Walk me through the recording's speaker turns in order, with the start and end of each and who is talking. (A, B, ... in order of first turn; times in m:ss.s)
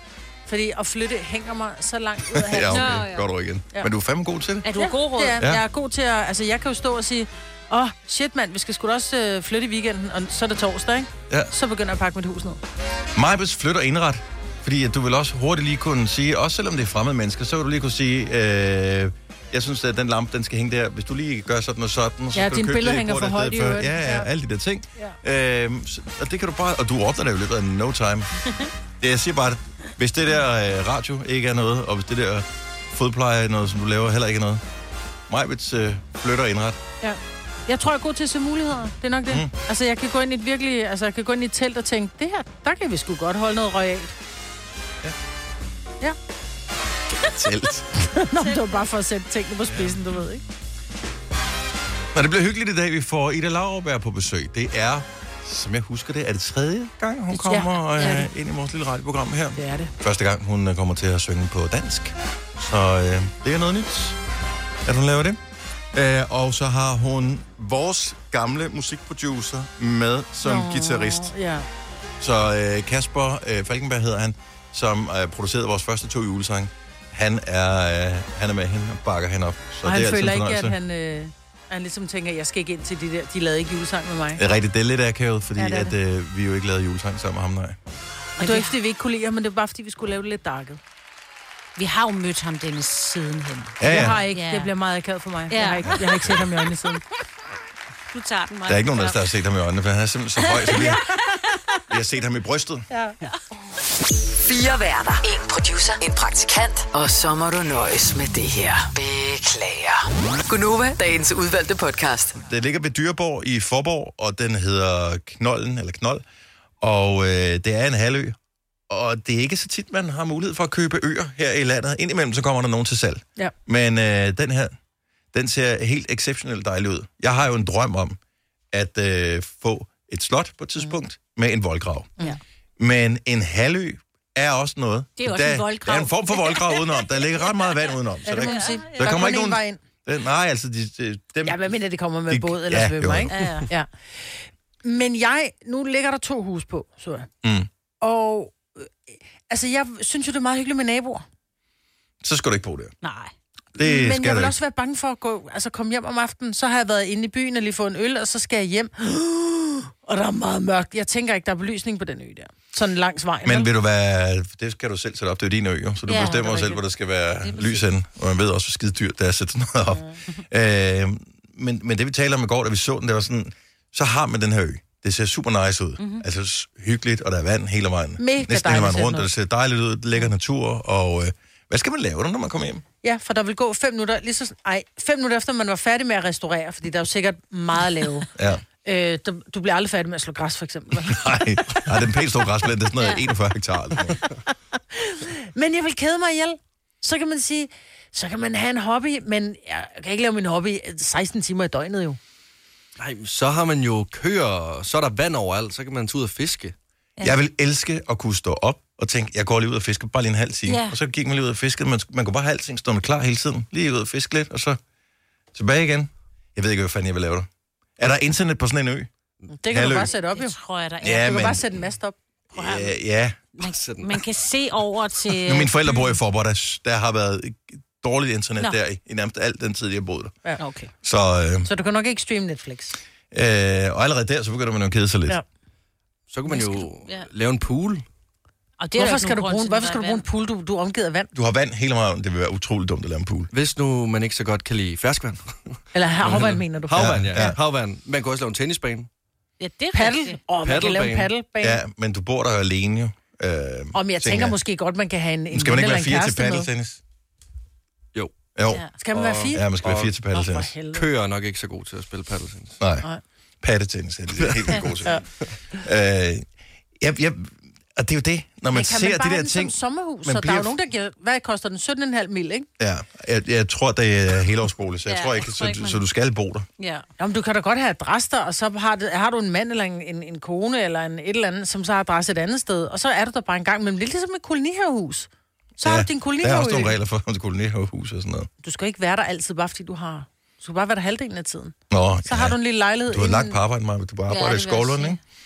0:00.5-0:03.0 A
0:02.3-0:04.6 B
0:02.7-0:03.3 C
0:04.6-0:05.4 C
0:04.7-0:12.6 A
0:05.4-0:05.6 B
0:13.1-0:28.3 B
0:22.3-0:24.3 A
0:29.0-0:34.6 B
0:35.3-0:36.8 B
0:37.0-0:44.1 A
0:47.3-0:47.8 B
0:48.0-0:50.4 A
0:48.4-0:48.9 C
0:52.1-1:04.2 B
0:57.3-0:58.2 A
0:59.6-0:59.9 A
1:04.8-1:05.4 B
1:05.9-1:11.3 B
1:10.4-1:11.7 A
1:12.2-1:20.8 B
1:19.8-1:24.4 A
1:24.4-1:27.8 B
1:25.6-1:25.9 A
1:28.4-1:28.7 C
1:28.4-1:30.8 A
1:31.8-1:34.7 C
1:33.8-1:34.2 B
1:33.8-1:37.0 A
1:35.5-1:36.0 C
1:35.9-1:36.4 B
1:38.1-1:39.2 C
1:38.6-1:41.0 B
1:40.6-1:40.9 C
1:40.7-1:41.2 A
1:41.9-1:42.9 B
1:44.4-1:52.3 D
1:52.4-1:56.2 B
1:56.8-1:58.4 B
1:58.9-2:04.8 B
2:05.3-2:08.2 B
2:08.7-2:12.1 B
2:12.8-2:21.7 B
2:15.2-2:18.9 C
2:18.2-2:19.8 A
2:21.4-2:27.3 A
2:22.3-2:23.3 B
2:23.3-2:23.7 C
2:27.4-2:27.7 B
2:28.0-2:31.2 A
2:32.2-2:32.9 B
2:33.0-2:33.3 C
2:33.8-2:34.5 B
2:33.8-2:43.7 A
2:43.4-3:02.8 B
2:46.1-2:46.4 C
2:46.2-2:46.8 A
2:47.4-2:47.9 C
2:56.0-2:56.2 C
2:58.2-2:59.3 A
3:03.0-3:08.3 A
3:08.4-3:08.6 B
3:08.8-3:11.8 A
3:11.1-3:14.2 B
3:14.9-3:22.2 A
3:23.0-3:26.7 E
3:27.2-3:34.8 B
3:30.6-3:30.9 C
3:35.5-3:39.1 B
3:39.6-3:40.6 A
3:39.7-3:40.1 B
3:40.1-3:41.4 C
3:41.0-3:41.6 B
3:41.1-3:42.2 A
3:42.5-3:43.4 B
3:42.5-3:42.9 C
3:43.6-3:45.9 C
3:43.6-3:44.2 E
3:45.4-3:50.4 B
3:50.6-3:50.9 C
3:51.0-3:51.7 B
3:51.6-3:53.0 A
3:53.3-3:55.4 B
3:56.3-3:58.0 E
3:56.5-3:57.3 C
3:58.8-4:00.2 C
3:59.0-4:01.3 A
4:01.3-4:03.5 B
4:03.5-4:09.1 E
4:05.9-4:07.5 A
4:06.9-4:07.6 B
4:09.6-4:10.4 C
4:09.9-4:11.8 A
4:10.6-4:11.3 E
4:11.6-4:14.6 B
4:13.9-4:16.7 A
4:15.5-4:17.0 B
4:18.5-4:18.8 B
4:19.0-4:19.6 A
4:19.1-4:20.1 E
4:19.5-4:20.7 B
4:20.3-4:21.1 A
4:20.9-4:22.8 E
4:22.8-4:23.0 B
4:23.6-4:26.4 B
4:24.4-4:24.8 E
4:27.0-4:30.7 B
4:28.7-4:32.7 A
4:32.8-4:36.7 B
4:35.1-4:36.0 C
4:36.8-4:37.0 C
4:37.2-4:45.3 A
4:45.8-4:47.0 A
4:45.8-4:48.5 B
4:48.6-4:53.6 A
4:51.9-4:52.6 B
4:53.1-4:55.2 B
4:54.3-4:55.2 C